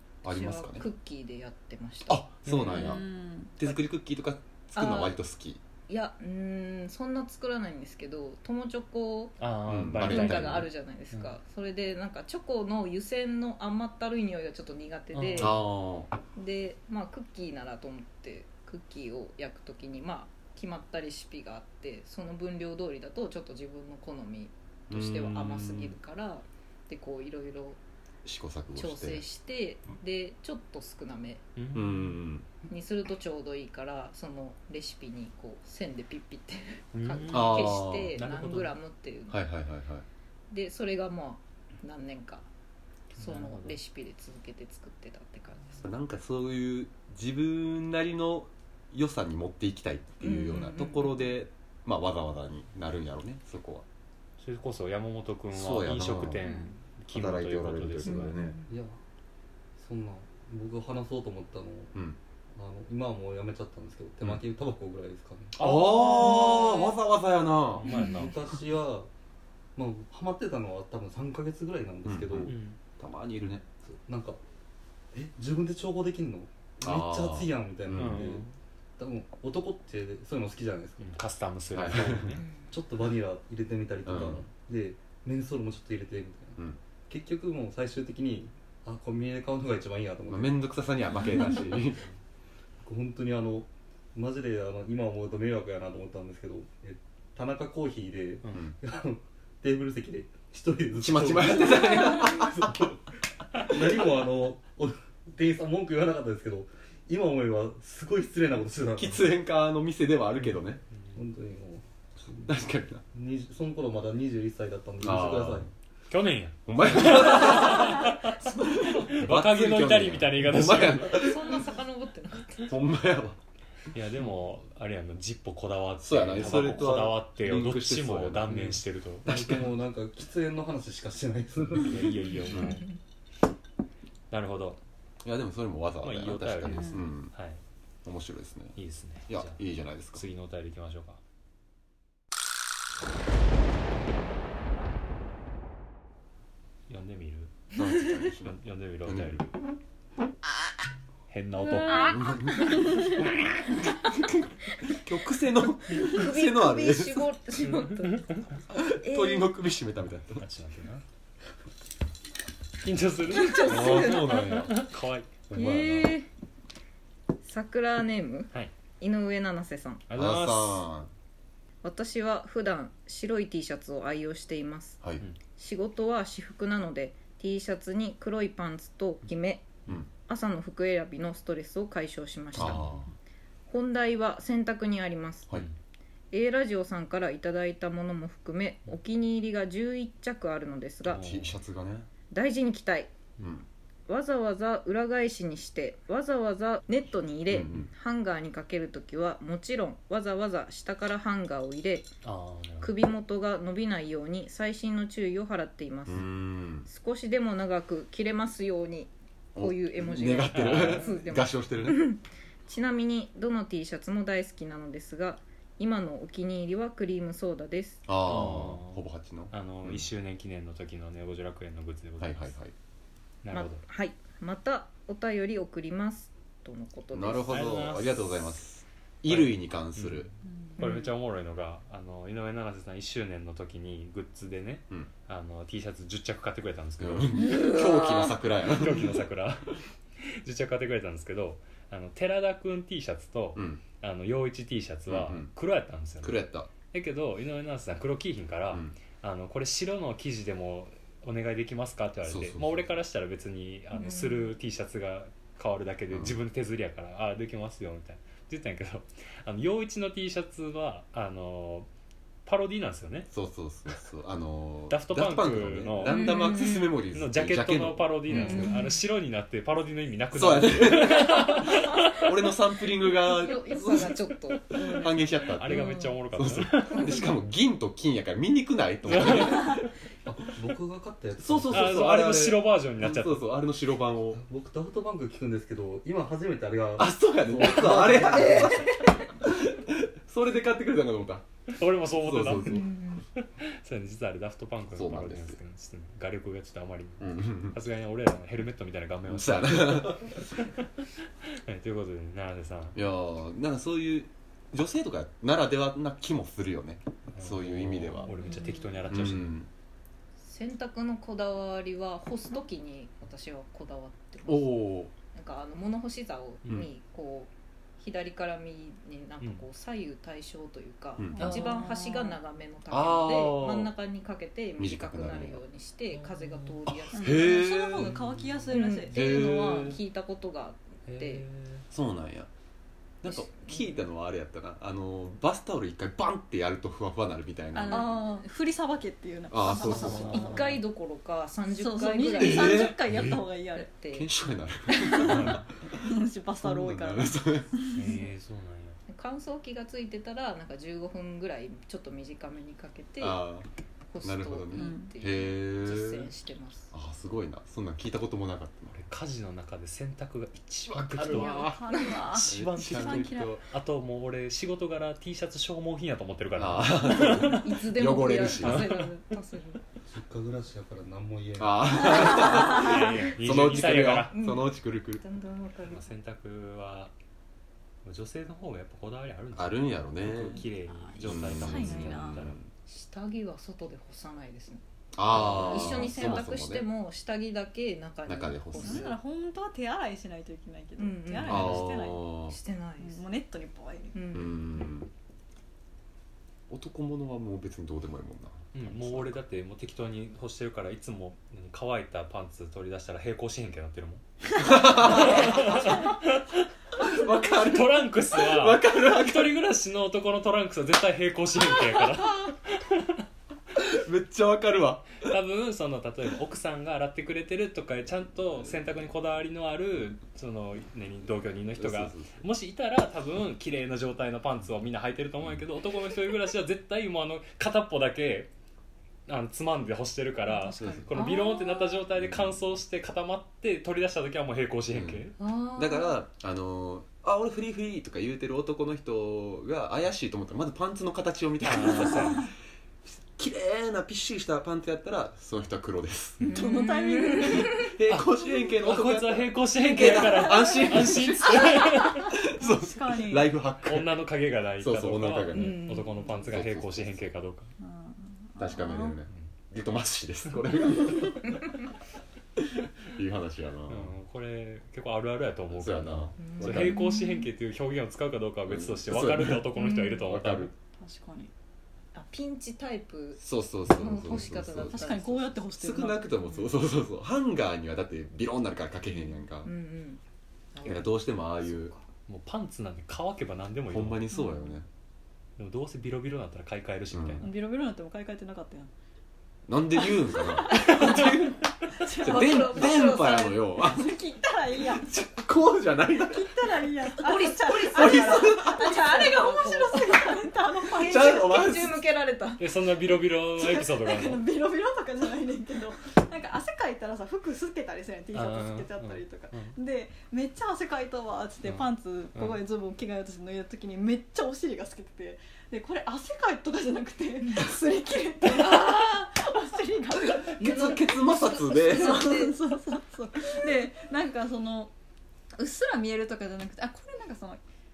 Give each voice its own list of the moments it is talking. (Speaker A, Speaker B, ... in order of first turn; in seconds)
Speaker A: 0.2-0.9, 2.1-3.0, 3.5-5.6, 9.7-10.7, 15.3-16.1, 24.9-25.9, 28.2-29.2, 31.7-32.5, 37.3-38.2, 39.3-40.0, 45.8-53.8, 55.5-56.4, 57.1-58.6, 65.6-67.9, 72.0-73.6, 76.8-78.3, 81.7-82.3, 84.0-84.4, 90.3-92.0, 101.0-102.9, 109.0-110.8, 112.4-113.0, 115.0-115.7, 116.7-121.7, 122.6-123.4, 126.0-129.7, 132.5-132.8, 135.2-137.3, 138.0-140.2, 147.7-149.4, 152.1-157.3, 158.7-160.4, 163.4-164.8, 165.5-166.1, 170.1-171.1, 182.5-183.1, 191.1-192.1, 193.4-193.6, 197.5-197.9, 206.1-206.9, 209.5-212.1, 218.1-220.1, 222.2-222.7, 227.1-230.3, 237.0-239.2, 243.5-243.8, 245.1-245.5, 246.2-246.7, 248.7-248.9, 252.2-252.8, 256.1-256.4, 263.3-268.8, 270.3-279.8, 281.4-284.4, 287.0-291.4, 292.1-293.0, 294.9-295.6, 297.2-297.8, 299.3-300.4, 302.9-308.3, 309.1-309.7, 314.4-315.1, 321.2-321.6, 322.9-323.9, 324.8-325.6, 327.1-328.1, 329.1-330.0, 331.9-332.5, 333.2-338.1, 339.5-340.4, 342.3-343.4, 344.1-346.1, 346.6-347.8, 353.2-353.7, 354.2-356.3, 356.9-359.0, 360.9-362.0, 362.5-363.6, 366.6-369.1, 371.6-375.2, 379.5-380.6, 381.2-382.7, 385.1-386.9, 388.2-389.1, 391.4-392.6, 394.3-395.1, 396.7-399.4, 404.6-406.1, 407.0-409.6, 411.8-412.1, 413.7-415.2, 421.8-422.4, 430.8-431.1, 432.1-432.6, 434.9-442.5, 443.0-454.2, 454.8-457.3, 458.6-461.6, 462.6-464.1, 465.7-467.0, 468.7-469.7, 470.2-470.7, 473.4-475.1, 475.8-479.7, 480.8-481.9, 483.9-484.9, 487.1-487.4, 489.7-494.2, 494.8-496.7, 497.7-498.9, 500.9-502.0, 520.4-522.4
Speaker B: 0.2-2.3, 4.8-5.1, 5.9-15.6, 16.3-27.8, 28.7-31.5, 32.6-39.4, 40.5-42.5, 43.1-45.9, 50.2-51.1, 58.0-58.7, 82.4-82.7, 121.1-122.7, 151.6-152.8, 155.9-159.5, 163.3-164.7, 165.5-166.3, 167.4-170.1, 171.8-175.0, 175.6-182.9, 183.7-185.5, 186.3-191.2, 192.3-193.1, 194.1-202.1, 202.8-206.3, 206.9-218.0, 223.5-227.6, 253.9-254.5, 266.0-267.0, 268.3-269.0, 273.1-276.2, 276.9-277.2, 288.4-289.1, 292.6-293.2, 310.4-327.6, 328.7-331.4, 333.2-334.0, 337.9-338.3, 340.3-342.9, 343.7-344.3, 349.1-353.4, 354.1-356.9, 367.1-369.8, 374.3-376.1, 382.9-389.2, 391.0-391.9, 392.4-393.2, 394.1-394.9, 430.4-432.0, 435.4-436.2, 446.4-447.9, 455.5-456.5, 466.4-467.5, 469.7-470.3, 472.1-475.6, 476.5-476.7, 479.6-480.2, 480.7-482.0, 492.2-493.6, 497.1-502.7, 520.6-522.6
Speaker C: 2.4-3.0, 9.4-11.3, 15.1-15.6, 31.6-32.2, 36.9-38.7, 43.2-43.8, 54.4-58.4, 65.6-66.7, 67.7-68.3, 72.5-72.8, 77.9-78.5, 81.0-82.4, 110.3-111.2, 116.1-121.2, 123.9-129.3, 131.8-132.8, 134.3-134.8, 136.0-137.6, 138.8-139.6, 140.1-141.2, 146.9-147.6, 148.2-149.5, 151.3-152.2, 157.6-158.4, 160.4-161.0, 162.8-165.3, 170.1-170.9, 182.6-183.1, 191.1-191.6, 202.2-202.9, 210.5-211.2, 218.2-222.5, 223.4-223.8, 227.5-228.3, 229.3-237.3, 238.6-261.9, 262.4-263.3, 264.9-266.5, 267.1-272.3, 275.6-277.1, 279.1-279.8, 281.7-283.5, 291.7-292.8, 293.4-303.0, 307.3-309.5, 319.4-319.6, 321.4-321.8, 326.1-327.0, 328.0-328.7, 331.1-331.8, 339.9-340.8, 345.2-345.6, 347.9-349.0, 358.9-367.7, 368.5-369.1, 372.3-374.4, 375.9-377.1, 378.0-382.6, 385.3-386.4, 398.7-406.7, 407.5-413.2, 415.2-428.5, 429.3-435.3, 441.6-442.5, 446.4-446.7, 448.1-452.3, 453.9-457.7, 463.9-470.7, 482.3-484.3, 485.6-487.5, 490.8-491.1, 502.6-504.4, 508.3-509.7, 511.6-512.6
Speaker D: 2.6-3.6, 56.4-56.7, 151.9-152.2, 152.7-153.1, 308.5-308.8, 321.4-322.4, 327.1-329.9, 337.7-340.7, 341.7-343.9, 344.9-348.2, 354.7-355.1, 361.2-363.6, 380.9-382.4, 388.8-392.3, 393.0-394.3, 446.4-447.9, 451.8-453.5, 457.8-459.2, 470.8-471.5, 474.9-476.3, 484.3-484.8, 487.4-488.9, 490.3-495.1, 496.1-501.6, 503.6-520.9, 521.9-524.9, 525.5-527.6
Speaker E: 58.7-59.0, 59.8-61.9, 62.5-65.7, 68.0-69.1, 69.8-72.5, 73.8-74.4, 75.1-78.5, 79.0-81.2, 81.9-90.7, 92.8-103.0, 103.5-109.4, 111.1-112.6, 113.1-115.7, 129.2-132.1, 280.2-282.1, 284.4-288.9, 370.1-372.5